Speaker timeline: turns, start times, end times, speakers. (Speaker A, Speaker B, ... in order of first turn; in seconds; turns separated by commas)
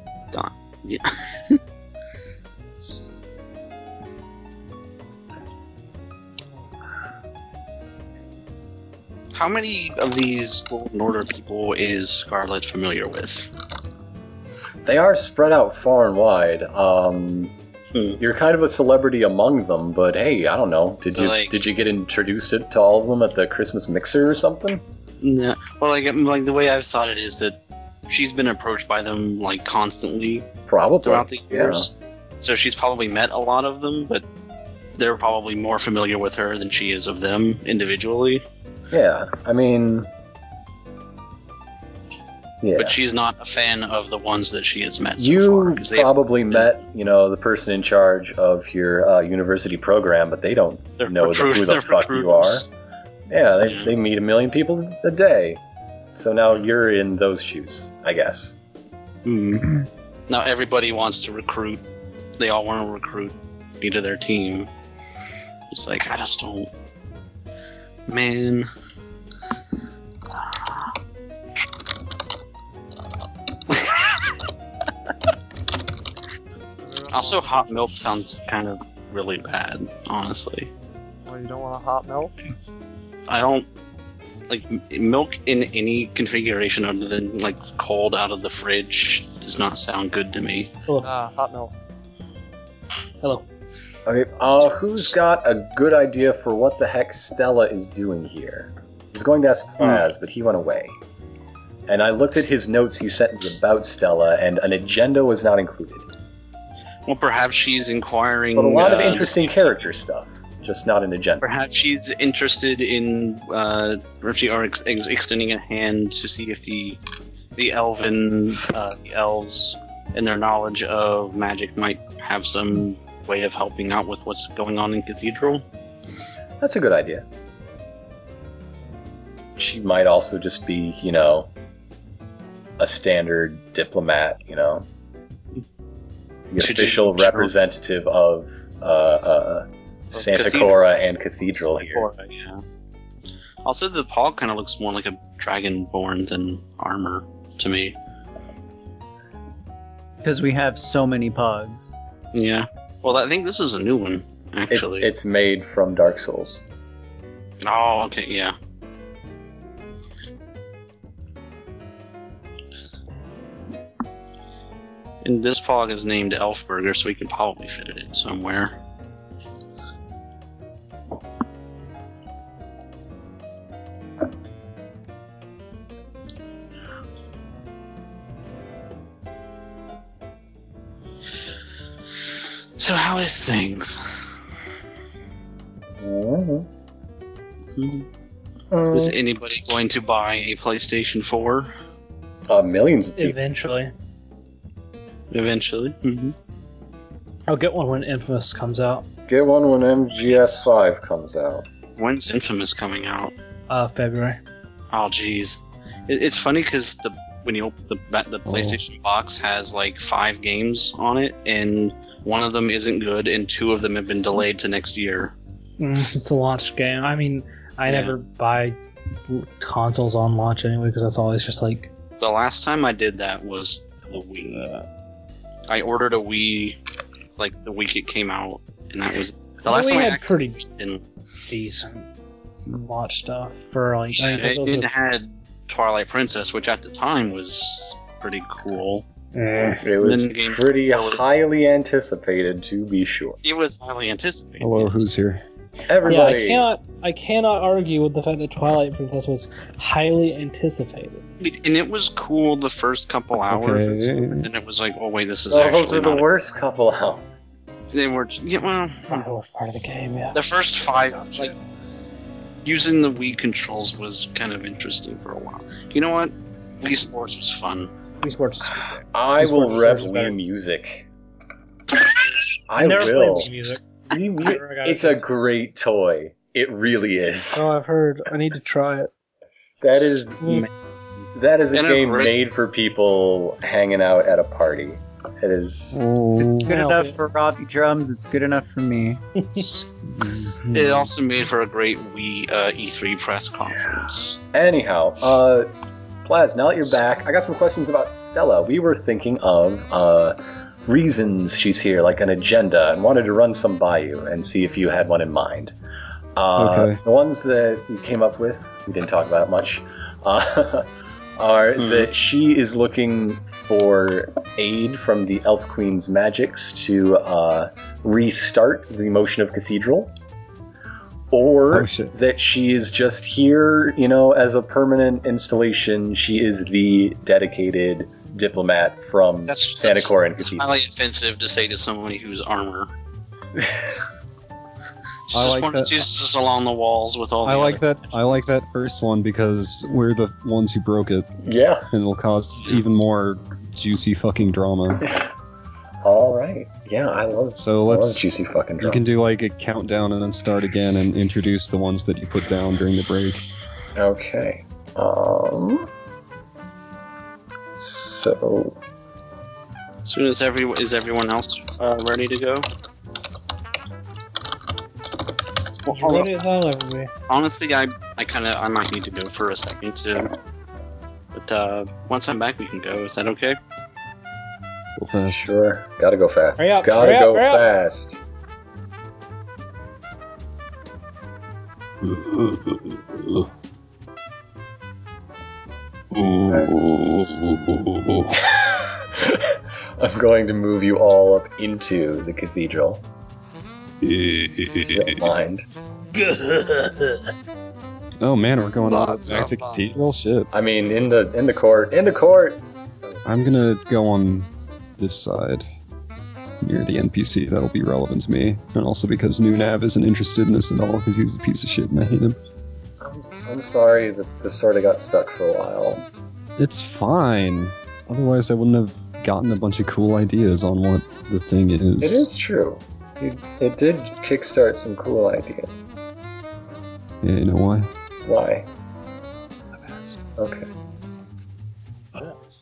Speaker A: 0.3-1.6, Speaker A: 9.3-13.5, Speaker B: 14.8-17.5, Speaker B: 18.2-24.8, Speaker A: 21.1-21.6, Speaker A: 25.2-27.6, Speaker A: 28.1-30.5, Speaker B: 30.7-31.9, Speaker A: 31.0-34.2, Speaker A: 35.0-38.4, Speaker B: 38.9-40.1, Speaker B: 42.6-43.0, Speaker A: 42.8-46.8, Speaker B: 45.2-52.7, Speaker A: 51.0-52.7, Speaker B: 53.3-58.6, Speaker A: 53.6-53.9, Speaker A: 59.2-61.8, Speaker A: 62.4-64.7, Speaker A: 65.7-66.7, Speaker A: 68.1-68.7, Speaker A: 70.4-70.9, Speaker C: 76.8-77.8, Speaker A: 77.1-80.7, Speaker C: 81.2-82.3, Speaker A: 83.3-83.7, Speaker A: 84.5-90.7, Speaker D: 90.8-91.1, Speaker C: 91.0-91.7, Speaker B: 94.0-101.0, Speaker A: 99.8-100.0, Speaker B: 101.9-106.1, Speaker A: 107.1-109.8, Speaker B: 108.5-111.5, Speaker A: 111.4-117.0, Speaker A: 117.5-125.6, Speaker B: 126.6-127.2, Speaker B: 129.6-131.5, Speaker B: 132.8-134.9, Speaker B: 136.5-142.1, Speaker A: 136.6-137.5, Speaker A: 140.1-140.8, Speaker A: 141.4-142.6, Speaker A: 143.6-147.9, Speaker E: 150.2-152.0, Speaker A: 152.3-155.1, Speaker B: 154.7-156.7, Speaker A: 157.6-158.5, Speaker A: 165.2-168.7, Speaker A: 182.8-184.0, Speaker B: 186.0-186.7, Speaker A: 187.8-188.0, Speaker B: 188.7-189.2, Speaker A: 188.9-191.7, Speaker B: 192.5-193.4, Speaker D: 193.2-193.9, Speaker A: 195.3-196.3, Speaker D: 197.5-199.0, Speaker B: 199.3-201.6, Speaker A: 200.2-200.7, Speaker A: 202.0-203.3, Speaker D: 203.7-204.4, Speaker A: 204.9-215.3, Speaker F: 208.4-208.8, Speaker D: 215.8-218.8, Speaker A: 217.9-218.1, Speaker D: 219.3-221.9, Speaker A: 222.2-224.8, Speaker A: 225.7-226.8, Speaker A: 227.4-231.0, Speaker D: 229.7-230.6, Speaker D: 231.5-232.1, Speaker D: 232.7-234.9, Speaker A: 234.1-239.0, Speaker D: 239.3-239.8, Speaker B: 239.8-243.4, Speaker A: 240.0-241.2, Speaker A: 243.4-244.9, Speaker F: 244.6-245.4, Speaker B: 245.9-246.7, Speaker D: 246.0-251.2, Speaker A: 251.4-256.3, Speaker F: 253.5-254.5, Speaker B: 255.5-257.2, Speaker A: 257.9-259.2, Speaker D: 259.1-260.4, Speaker A: 260.3-261.5, Speaker D: 260.9-261.5, Speaker A: 262.6-267.9, Speaker D: 268.2-270.4, Speaker B: 269.1-271.1, Speaker B: 272.7-273.6, Speaker D: 272.8-275.2, Speaker B: 274.1-277.7, Speaker D: 277.5-279.1, Speaker B: 279.8-280.4, Speaker D: 280.4-280.7, Speaker B: 281.3-286.0, Speaker A: 281.7-282.3, Speaker F: 285.9-286.7, Speaker E: 286.3-289.2, Speaker D: 286.6-287.2, Speaker F: 289.6-290.6, Speaker D: 290.6-291.1, Speaker A: 290.7-294.4, Speaker B: 294.5-295.7, Speaker B: 296.2-305.7, Speaker B: 306.4-310.9, Speaker F: 306.6-307.0, Speaker B: 311.4-320.1, Speaker A: 311.8-312.1, Speaker B: 321.3-330.7, Speaker F: 321.7-322.1, Speaker A: 329.5-332.9, Speaker B: 333.6-334.0, Speaker A: 335.3-338.4, Speaker F: 335.3-335.9, Speaker F: 337.4-341.3, Speaker B: 341.4-341.9, Speaker F: 341.9-345.0, Speaker A: 342.6-342.8, Speaker B: 346.0-349.0, Speaker F: 347.6-348.2, Speaker F: 348.8-353.4, Speaker B: 353.9-355.9, Speaker B: 357.7-358.8, Speaker A: 360.0-362.6, Speaker A: 365.9-366.3, Speaker D: 365.9-367.1, Speaker A: 367.3-370.3, Speaker A: 371.3-373.6, Speaker F: 375.0-375.4, Speaker B: 375.3-378.2, Speaker D: 376.6-377.7, Speaker F: 386.2-388.3, Speaker B: 386.5-386.8, Speaker B: 388.3-393.0, Speaker F: 394.0-395.1, Speaker B: 394.8-395.6, Speaker F: 398.2-400.5, Speaker C: 398.8-399.9, Speaker B: 400.5-403.2, Speaker F: 403.2-405.6, Speaker F: 406.6-412.4, Speaker B: 413.0-416.1, Speaker F: 416.6-422.3, Speaker B: 422.0-425.9, Speaker F: 427.2-427.9, Speaker B: 428.2-428.7, Speaker D: 429.7-430.1, Speaker B: 430.4-430.7